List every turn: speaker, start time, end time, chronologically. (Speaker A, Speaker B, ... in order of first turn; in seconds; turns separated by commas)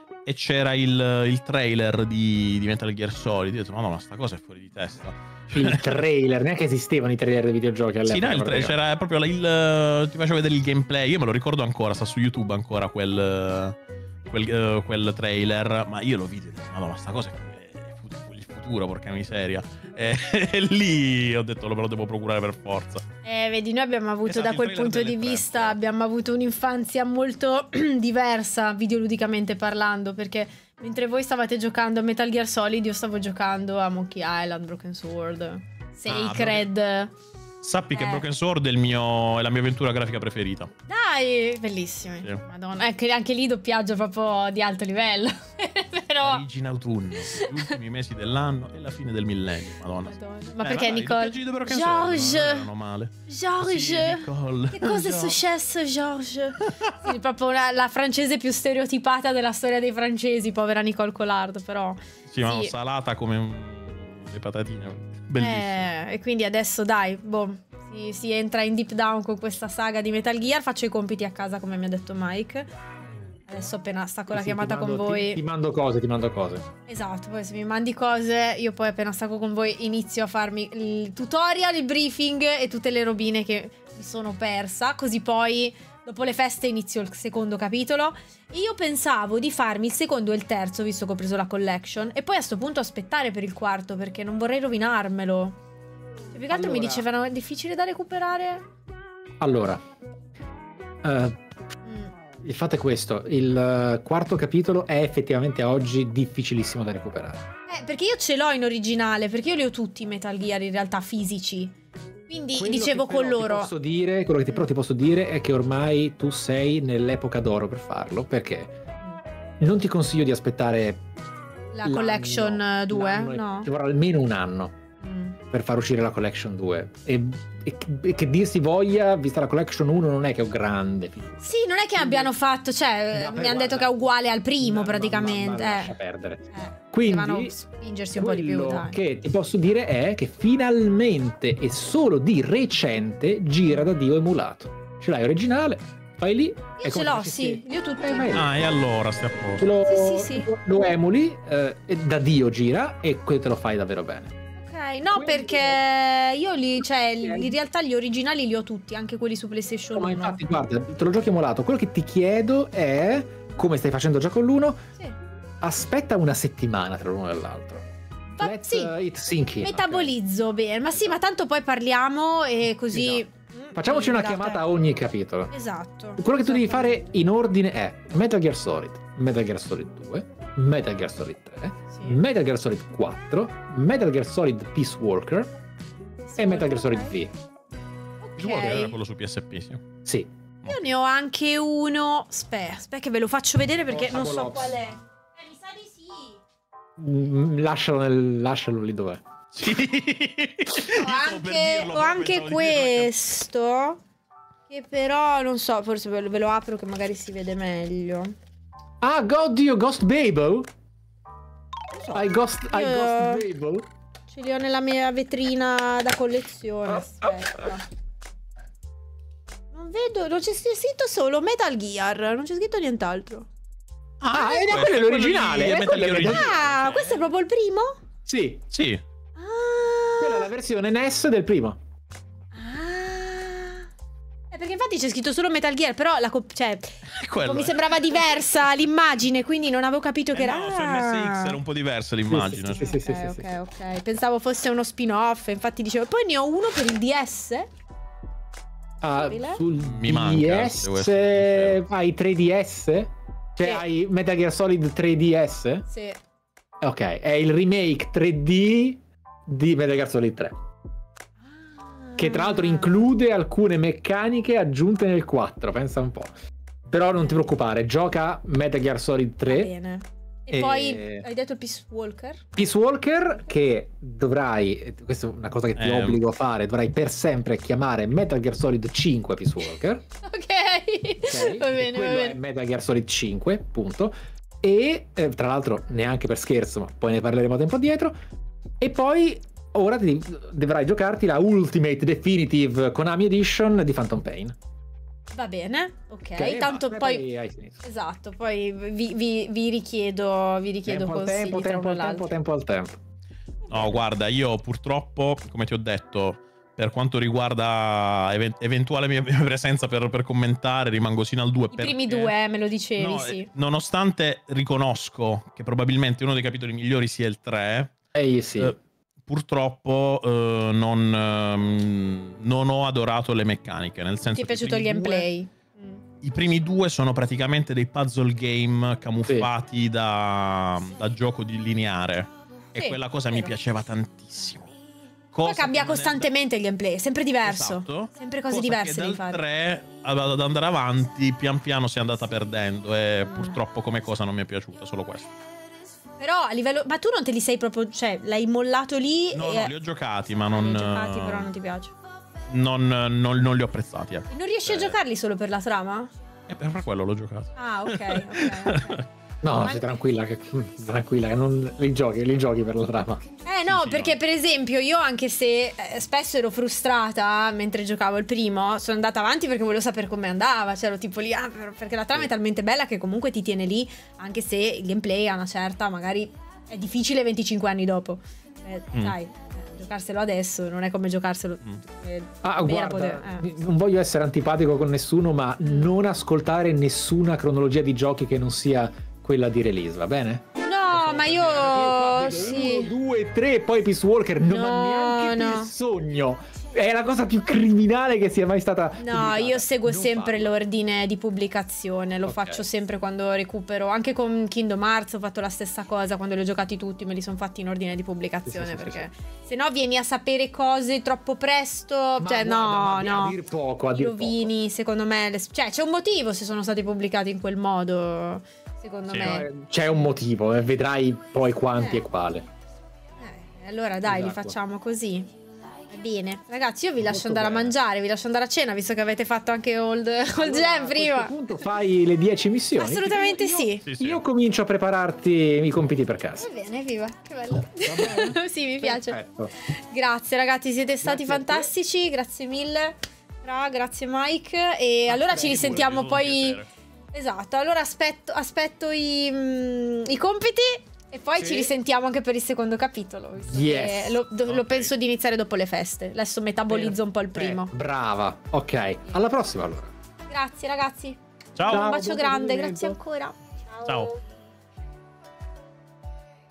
Speaker A: 0.2-6.0, Speaker B: 5.5-8.8, Speaker A: 8.1-23.0, Speaker C: 23.2-37.1, Speaker A: 24.2-25.8, Speaker A: 36.1-36.7, Speaker A: 37.6-40.7, Speaker C: 37.9-38.2, Speaker C: 40.9-46.4, Speaker A: 46.2-55.4, Speaker C: 47.2-47.7, Speaker C: 50.0-52.7, Speaker C: 53.3-62.7, Speaker A: 62.3-65.8, Speaker C: 65.4-72.7, Speaker C: 73.5-75.4, Speaker B: 74.3-76.7, Speaker C: 76.9-95.6, Speaker C: 96.3-98.7, Speaker B: 96.5-97.0, Speaker B: 99.4-99.8, Speaker B: 101.0-101.4, Speaker C: 101.8-102.1, Speaker B: 102.4-107.5, Speaker C: 107.7-111.7, Speaker C: 112.3-113.7, Speaker B: 112.5-118.8, Speaker B: 119.6-121.0, Speaker C: 121.7-123.7, Speaker B: 121.8-124.8, Speaker C: 125.0-125.4, Speaker B: 125.5-131.4, Speaker C: 131.4-135.9, Speaker B: 132.0-132.3, Speaker B: 133.1-133.9, Speaker B: 134.6-137.5, Speaker C: 136.5-139.0, Speaker B: 138.2-148.5, Speaker C: 146.8-148.5, Speaker A: 148.3-149.7, Speaker B: 149.6-154.3, Speaker C: 149.8-150.5, Speaker C: 154.6-160.4, Speaker B: 155.1-155.8, Speaker B: 157.2-157.5, Speaker B: 159.9-164.8, Speaker B: 165.6-167.8, Speaker C: 168.3-168.9, Speaker B: 168.4-170.1, Speaker C: 169.6-174.6, Speaker B: 172.9-175.5, Speaker C: 175.5-177.0, Speaker B: 176.2-185.5, Speaker C: 181.9-182.2, Speaker C: 186.2-187.2, Speaker B: 186.4-187.3, Speaker C: 188.2-189.0, Speaker A: 188.4-189.8, Speaker B: 190.0-190.3, Speaker C: 190.7-196.4, Speaker B: 193.9-194.8, Speaker B: 197.0-199.2, Speaker A: 199.5-203.1, Speaker C: 200.8-204.0, Speaker C: 204.7-208.3, Speaker B: 209.0-210.7, Speaker C: 212.0-213.4, Speaker B: 212.1-213.8, Speaker C: 214.3-217.8, Speaker B: 216.9-217.7, Speaker C: 219.7-223.5, Speaker A: 224.2-227.3, Speaker B: 224.3-226.6, Speaker C: 226.1-228.0, Speaker B: 228.2-228.6, Speaker A: 228.7-229.0, Speaker C: 229.4-230.5, Speaker B: 230.2-231.8, Speaker C: 232.5-233.9, Speaker C: 234.5-241.6, Speaker A: 237.1-238.2, Speaker A: 240.3-242.8, Speaker B: 242.3-243.4, Speaker C: 242.8-247.7, Speaker B: 249.0-255.8, Speaker C: 249.1-249.6, Speaker A: 249.8-251.8, Speaker C: 255.9-256.2, Speaker B: 256.8-260.6, Speaker C: 261.5-263.1, Speaker B: 262.2-266.3, Speaker B: 266.9-269.7, Speaker C: 269.4-272.4, Speaker B: 270.5-271.3, Speaker B: 272.6-280.0, Speaker A: 275.8-276.2, Speaker C: 280.2-282.4, Speaker B: 281.2-288.1, Speaker B: 288.8-294.5, Speaker C: 295.3-297.2, Speaker B: 296.4-297.8, Speaker C: 297.8-302.3, Speaker B: 300.9-303.0, Speaker A: 303.7-312.3, Speaker C: 311.7-313.5, Speaker A: 313.0-317.9, Speaker B: 318.1-318.7, Speaker A: 318.6-325.3, Speaker C: 324.3-326.0, Speaker A: 326.2-334.7, Speaker C: 332.8-333.5, Speaker A: 335.3-336.3, Speaker C: 335.4-339.4, Speaker A: 337.4-345.3, Speaker C: 343.3-343.6, Speaker C: 346.2-349.7, Speaker A: 349.3-351.5, Speaker C: 350.5-351.9, Speaker A: 352.5-355.0, Speaker C: 354.3-356.1, Speaker A: 356.5-359.0, Speaker C: 357.6-359.0, Speaker B: 359.4-363.2, Speaker C: 359.6-359.9, Speaker C: 363.4-383.4, Speaker A: 363.6-364.2, Speaker B: 382.4-390.4, Speaker C: 385.6-385.9, Speaker C: 390.6-392.9, Speaker A: 390.9-392.3, Speaker B: 391.4-400.6, Speaker C: 394.4-395.7, Speaker C: 399.0-413.4, Speaker B: 402.2-402.6, Speaker B: 408.4-409.0, Speaker B: 412.2-414.5, Speaker C: 413.9-419.5, Speaker A: 419.1-419.4, Speaker B: 419.2-422.4, Speaker C: 423.2-425.3, Speaker B: 424.0-424.6, Speaker C: 425.9-431.3, Speaker B: 427.0-427.7, Speaker B: 430.4-436.4, Speaker C: 432.8-433.8, Speaker A: 433.8-434.2, Speaker C: 436.4-446.6, Speaker B: 437.8-439.5, Speaker B: 441.0-441.7, Speaker A: 445.1-446.7, Speaker B: 445.4-445.7, Speaker C: 447.1-457.7, Speaker B: 451.4-451.7, Speaker B: 453.4-454.2, Speaker A: 454.4-454.9, Speaker B: 456.7-459.9, Speaker C: 460.3-464.2, Speaker A: 461.6-461.9, Speaker B: 461.7-463.0, Speaker A: 463.8-464.1